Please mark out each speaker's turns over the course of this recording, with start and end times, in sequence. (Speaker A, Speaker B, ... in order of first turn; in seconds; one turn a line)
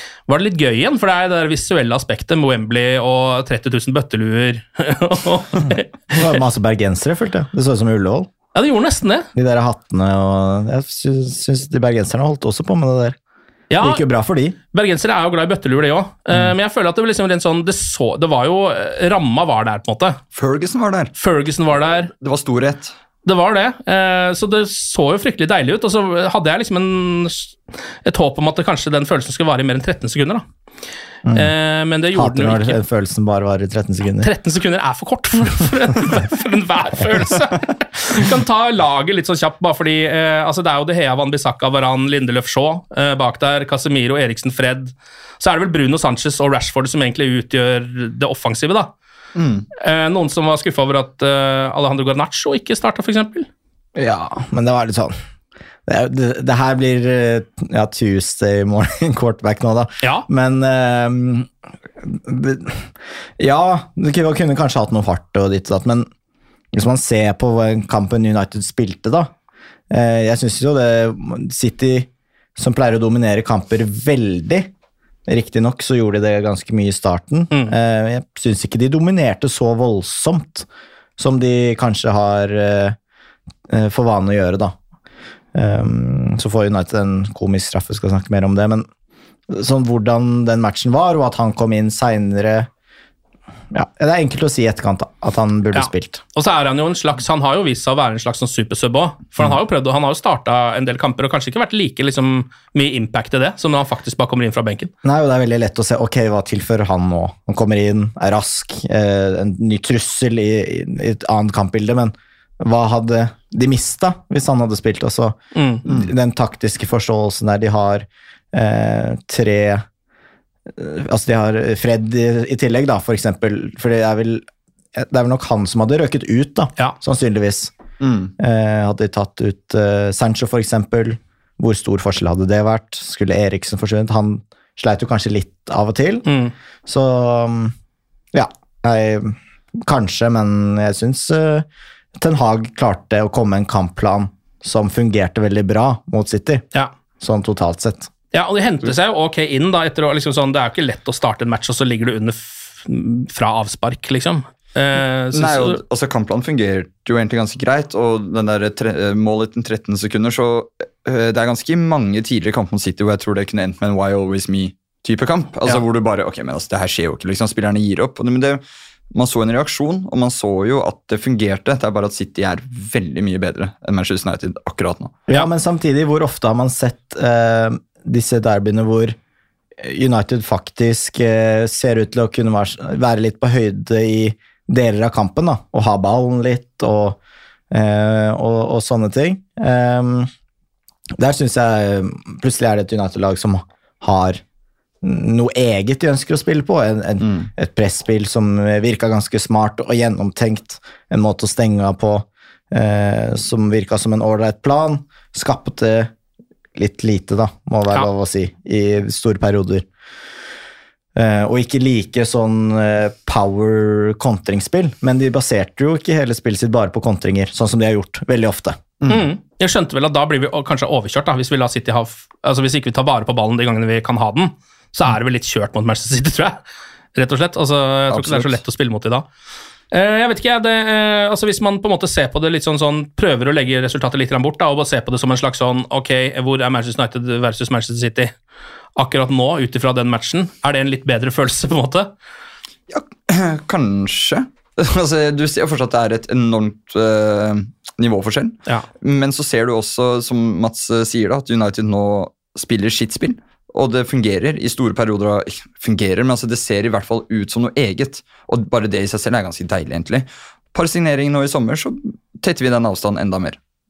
Speaker A: 0.3-6.2
Speaker B: 6.1-8.3
Speaker A: 8.6-9.3
Speaker B: 9.3-13.2
Speaker A: 13.7-14.0
Speaker B: 13.8-14.6
Speaker A: 14.7-20.2
Speaker C: 20.3-21.1
Speaker A: 21.2-22.1
Speaker C: 22.1-22.9
Speaker A: 23.2-30.4
Speaker B: 31.3-31.5
Speaker A: 31.3-32.8
Speaker B: 32.1-34.3
Speaker A: 34.2-48.9
Speaker C: 49.4-49.7
Speaker A: 49.8-53.5
Speaker B: 54.0-55.1
Speaker B: 55.9-66.1
Speaker B: 66.7-69.3
Speaker B: 69.9-74.7
Speaker B: 75.3-83.0
Speaker B: 83.7-84.8
Speaker B: 85.5-88.9
Speaker B: 89.5-92.7
Speaker B: 93.7-96.2
Speaker A: 95.7-104.9
Speaker B: 105.0-119.8
Speaker A: 115.5-115.8
Speaker B: 120.8-127.7
Speaker C: 128.0-128.3
Speaker B: 128.4-136.3
Speaker A: 136.3-136.5
Speaker B: 136.9-137.7
Speaker B: 138.3-146.7
Speaker B: 147.2-148.1
Speaker A: 148.3-155.8
Speaker C: 155.3-168.6
Speaker C: 169.1-175.2
Speaker B: 175.3-179.2
Speaker B: 179.8-187.2
Speaker B: 187.7-190.3
Speaker B: 191.2-194.4
Speaker B: 195.0-206.1
Speaker C: 197.2-197.5
Speaker B: 206.8-209.9
Speaker B: 211.2-218.9
Speaker C: 219.0-219.3
Speaker A: 219.1-226.6
Speaker A: 227.2-229.3
Speaker C: 228.1-228.6
Speaker A: 229.9-238.3
Speaker A: 239.0-242.1
Speaker C: 242.9-263.6